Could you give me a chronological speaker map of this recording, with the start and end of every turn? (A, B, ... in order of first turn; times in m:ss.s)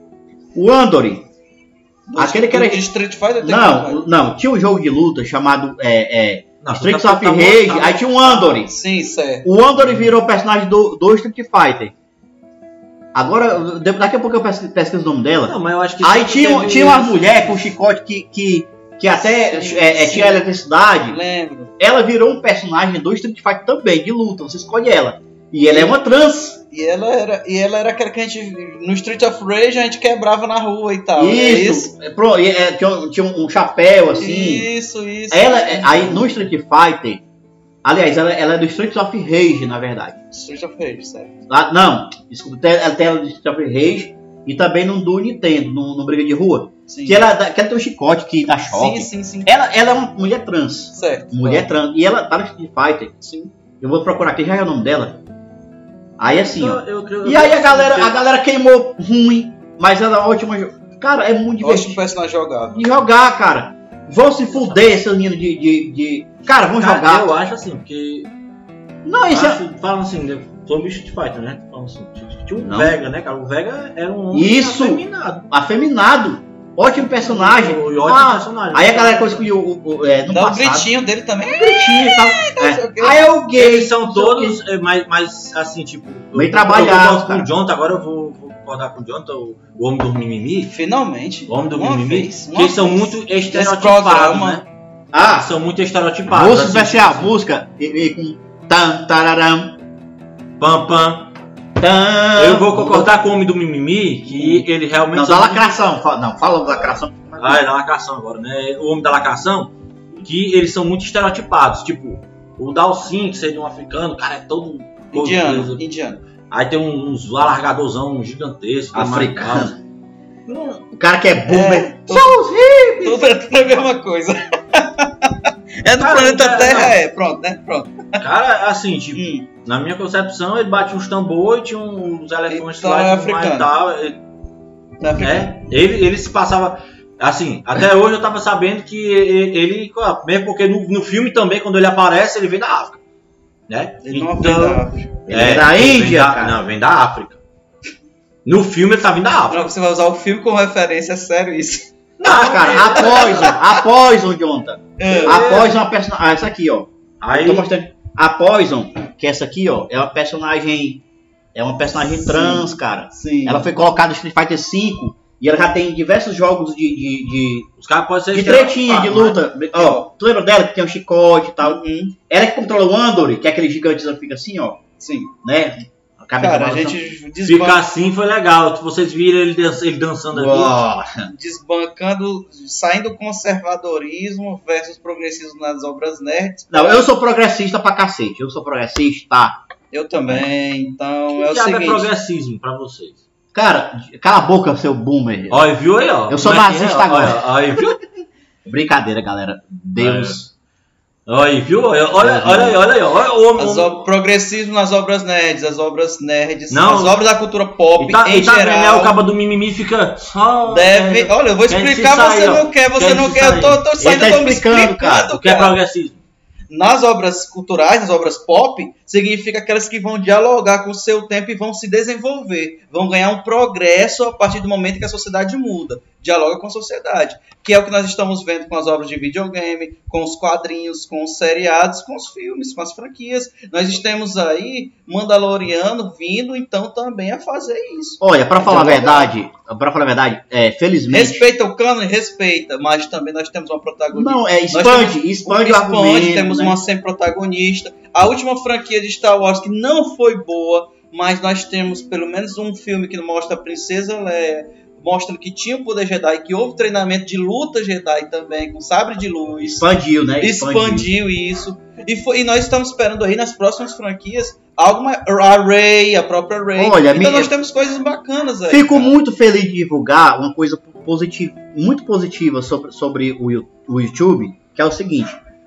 0:00.6-0:01.3 A
0:02.1-0:04.0 B
0:02.2-0:02.9 A
0:03.4-0:08.7 A
0:06.6-0:08.0 C
0:08.2-0:09.5 B
0:09.4-0:11.9 A
0:09.8-0:10.1 C
0:13.1-0:21.2 A
0:15.5-0:17.7 C
0:19.2-0:20.5 B
0:21.1-0:21.7 B
0:21.8-0:26.6 A
0:26.7-0:31.9 B
0:31.2-0:34.7 A
0:34.2-0:36.5 B
0:35.3-0:37.2 A
0:37.8-0:40.2 A
0:40.3-0:41.4 B
0:41.5-0:53.1 A
0:46.9-0:47.2 B
0:48.7-0:49.6 B
0:50.9-0:51.7 B
0:53.2-0:53.5 B
0:53.8-0:55.2 A
0:56.2-1:02.0 A
0:56.4-0:58.2 C
1:01.6-1:03.0 B
1:02.7-1:07.3 A
1:04.5-1:04.9 C
1:06.8-1:08.3 C
1:09.0-1:09.6 A
1:09.3-1:15.4 C
1:12.6-1:13.0 A
1:14.3-1:20.9 A
1:17.2-1:19.5 C
1:20.3-1:23.2 B
1:21.4-1:24.6 A
1:23.6-1:30.8 C
1:26.3-1:27.5 A
1:30.7-1:34.6 B
1:31.5-1:34.7 C
1:35.1-1:35.5 A
1:35.2-1:37.3 C
1:36.3-1:39.8 A
1:40.6-1:41.3 C
1:41.8-1:43.2 A
1:42.4-1:45.8 C
1:44.2-1:47.6 A
1:47.4-1:49.7 C
1:50.3-1:55.8 C
1:55.1-1:56.2 B
1:56.5-1:59.8 C
1:58.9-1:59.8 A
2:00.5-2:00.8 C
2:00.9-2:03.4 A
2:01.5-2:02.4 B
2:03.0-2:08.2 B
2:06.0-2:07.0 C
2:08.2-2:14.2 C
2:09.2-2:09.5 B
2:12.5-2:13.7 B
2:15.0-2:15.6 B
2:15.2-2:23.0 C
2:23.7-2:27.4 C
2:24.0-2:25.2 B
2:25.3-2:26.6 A
2:28.4-2:29.7 C
2:29.5-2:31.9 B
2:32.2-2:33.6 C
2:32.2-2:41.0 A
2:32.7-2:33.8 B
2:35.0-2:35.4 B
2:35.2-2:35.8 C
2:37.2-2:37.7 C
2:41.6-2:47.7 A
2:42.2-2:43.7 B
2:47.8-2:49.4 C
2:48.3-2:54.8 A
2:49.7-2:50.1 B
2:51.6-2:52.1 B
2:55.0-2:55.3 B
2:55.4-2:57.0 A
2:56.4-2:57.8 B
2:57.4-3:00.8 C
3:00.3-3:01.3 A
3:01.3-3:07.1 B
3:06.7-3:09.6 A
3:09.9-3:12.1 B
3:11.3-3:13.2 C
3:13.5-3:15.7 A
3:15.5-3:18.0 C
3:16.3-3:17.5 A
3:18.7-3:20.5 A
3:20.0-3:20.4 C
3:21.3-3:24.1 C
3:22.2-3:22.8 A
3:23.6-3:29.2 B
3:26.7-3:27.3 C
3:28.0-3:33.9 C
3:30.7-3:35.8 B
3:34.0-3:35.3 A
3:35.3-3:36.2 C
3:36.7-3:59.3 B
3:58.2-4:01.5 A
4:01.1-4:19.9 B
4:04.1-4:06.8 A
4:19.6-4:21.1 A
4:20.4-4:29.1 B
4:26.8-4:27.5 A
4:28.7-4:35.4 A